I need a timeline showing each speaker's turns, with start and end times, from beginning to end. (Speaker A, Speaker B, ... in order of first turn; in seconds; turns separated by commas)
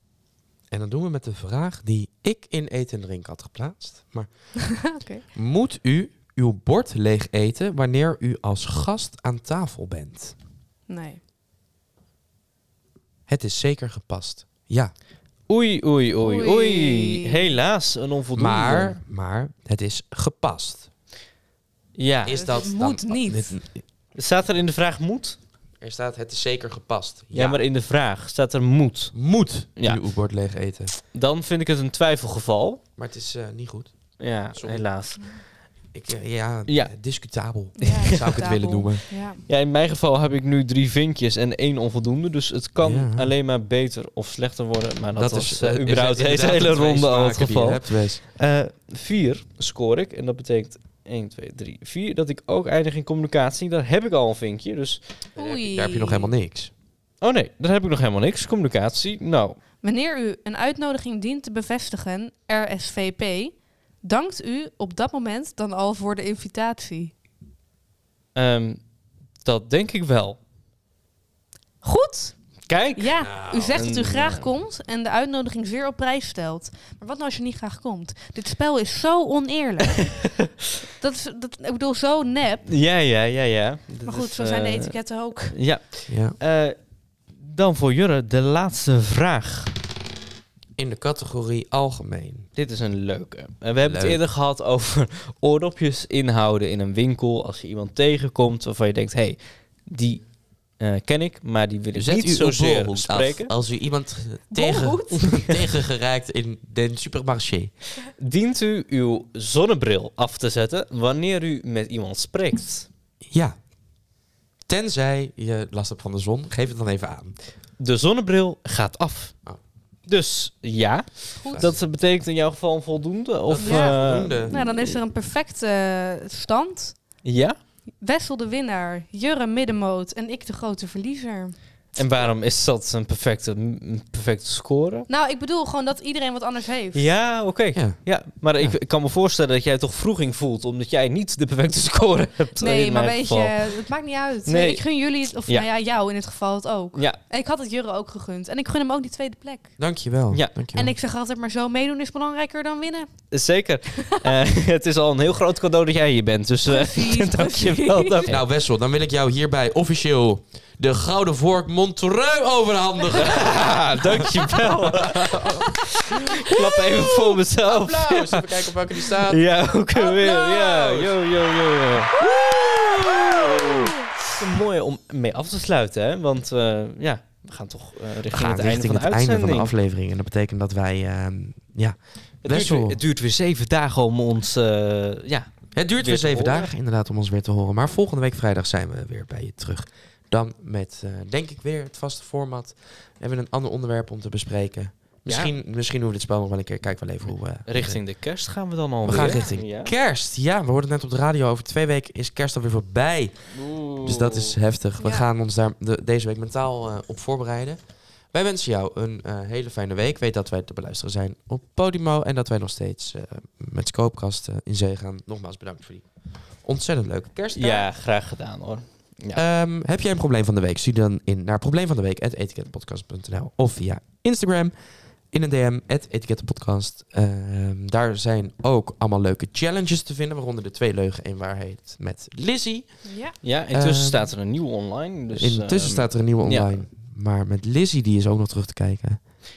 Speaker A: 0.7-4.5, Speaker B: 4.8-5.2, Speaker A: 5.3-10.4, Speaker B: 10.9-11.2, Speaker A: 13.3-14.9, Speaker C: 15.5-19.0, Speaker B: 16.2-17.5, Speaker A: 18.4-20.9, Speaker C: 22.0-22.4, Speaker A: 22.2-23.8, Speaker B: 22.3-23.6, Speaker C: 24.1-25.4, Speaker A: 25.8-27.6, Speaker C: 27.3-30.0, Speaker A: 29.1-30.9, Speaker C: 31.1-32.8, Speaker A: 33.0-34.9, Speaker C: 34.2-35.4, Speaker A: 35.9-39.0, Speaker C: 36.7-36.9, Speaker B: 37.8-39.4, Speaker C: 39.5-55.0, Speaker A: 42.8-43.3, Speaker A: 45.2-48.2, Speaker B: 55.4-56.3, Speaker A: 55.4-56.7, Speaker C: 57.2-59.6, Speaker B: 59.8-67.1, Speaker C: 68.3-68.8, Speaker C: 69.4-70.4, Speaker B: 71.8-72.3, Speaker C: 72.7-73.2, Speaker B: 73.0-80.2, Speaker A: 73.2-73.9, Speaker C: 73.7-74.5, Speaker C: 79.9-80.5, Speaker B: 81.0-82.7, Speaker C: 82.7-85.0, Speaker B: 84.0-85.6, Speaker C: 85.5-86.8, Speaker A: 86.1-86.4, Speaker C: 87.3-89.7, Speaker A: 90.8-92.5, Speaker C: 92.6-100.2, Speaker A: 93.8-94.2, Speaker C: 100.8-103.5, Speaker A: 101.9-107.7, Speaker B: 104.5-105.3, Speaker C: 105.2-105.7, Speaker C: 108.2-112.9, Speaker A: 113.3-113.6, Speaker A: 114.7-117.3, Speaker C: 117.8-119.3, Speaker C: 120.1-125.0, Speaker B: 121.4-121.7, Speaker A: 121.5-121.8, Speaker A: 123.5-124.6, Speaker B: 123.6-127.0, Speaker C: 127.2-127.6, Speaker B: 128.0-131.6, Speaker C: 131.9-135.1, Speaker B: 135.1-137.1, Speaker C: 136.9-143.9, Speaker A: 137.8-138.0, Speaker B: 142.6-149.8, Speaker C: 144.4-144.8, Speaker A: 149.8-150.9, Speaker B: 150.7-153.2, Speaker C: 153.3-158.4, Speaker B: 156.7-158.2, Speaker A: 158.3-165.6, Speaker C: 163.2-172.2, Speaker A: 167.6-169.4, Speaker B: 170.0-170.3, Speaker A: 170.0-171.2, Speaker A: 172.2-173.9, Speaker C: 174.3-179.7, Speaker A: 178.3-183.0, Speaker C: 182.4-186.7, Speaker A: 185.8-198.0, Speaker C: 195.3-195.6, Speaker C: 197.7-199.9, Speaker A: 199.1-216.1, Speaker C: 203.5-204.6, Speaker B: 205.0-205.3, Speaker A: 216.6-217.9, Speaker C: 217.5-219.4, Speaker A: 219.3-224.7, Speaker A: 225.3-233.1, Speaker B: 233.0-233.3, Speaker C: 233.4-236.8, Speaker A: 233.7-234.3, Speaker A: 235.4-239.2